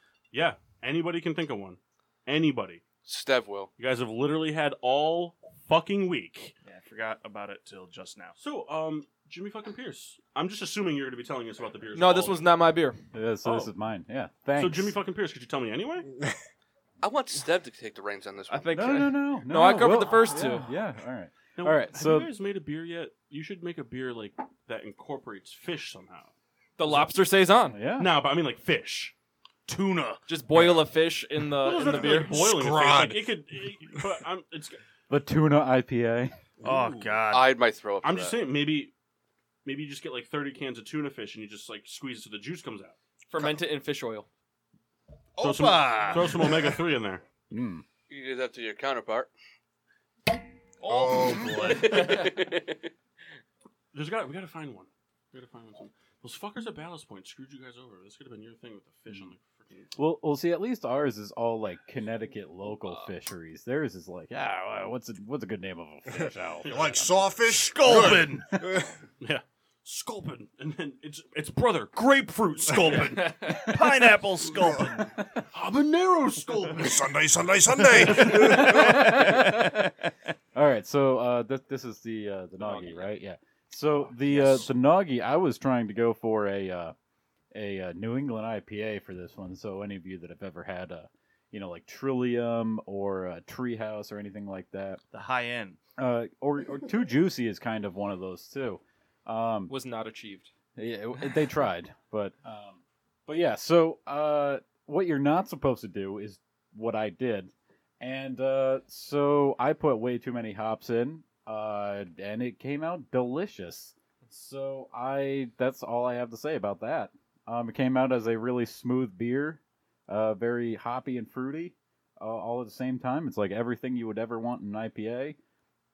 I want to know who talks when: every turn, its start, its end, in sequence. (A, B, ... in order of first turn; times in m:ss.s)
0:00.3-0:02.8 A
0:03.0-0:03.7 B
0:03.8-0:06.5 A
0:06.6-0:08.4 C
0:08.4-0:12.4 A
0:12.0-0:13.0 D
0:13.1-0:15.0 E
0:13.4-0:13.7 A
0:14.6-0:16.1 A
0:17.0-0:18.8 B
0:18.5-0:20.7 D
0:18.7-0:22.3 E
0:21.6-0:26.3 A
0:26.8-0:27.8 D
0:27.7-0:28.1 E
0:28.0-0:29.1 A
0:29.7-0:30.2 C
0:30.3-0:32.4 D
0:31.6-0:34.8 A
0:31.8-0:33.4 F
0:35.1-0:36.4 E
0:36.6-0:37.6 C
0:36.6-0:37.2 A
0:37.3-0:38.4 B
0:38.0-0:38.9 A
0:39.6-0:43.0 A
0:43.3-0:44.3 D
0:45.4-0:46.8 C
0:45.4-0:47.2 A
0:47.5-0:47.8 E
0:48.1-0:49.3 B
0:50.8-0:52.3 D
0:50.8-0:52.3 F
0:51.6-0:52.9 B
0:53.9-1:00.0 A
1:00.0-1:07.1 E
1:06.1-1:09.0 F
1:06.6-1:07.1 A
1:07.4-1:08.6 C
1:09.2-1:13.7 A
1:13.5-1:15.1 C
1:15.5-1:17.1 A
1:16.7-1:19.2 F
1:18.0-1:18.7 A
1:18.1-1:19.9 C
1:18.5-1:19.8 E
1:20.5-1:27.0 E
1:22.6-1:23.1 D
1:24.3-1:24.6 C
1:27.5-1:35.0 E
1:35.1-1:35.8 C
1:36.0-1:39.7 E
1:39.7-1:40.5 D
1:40.8-2:05.4 E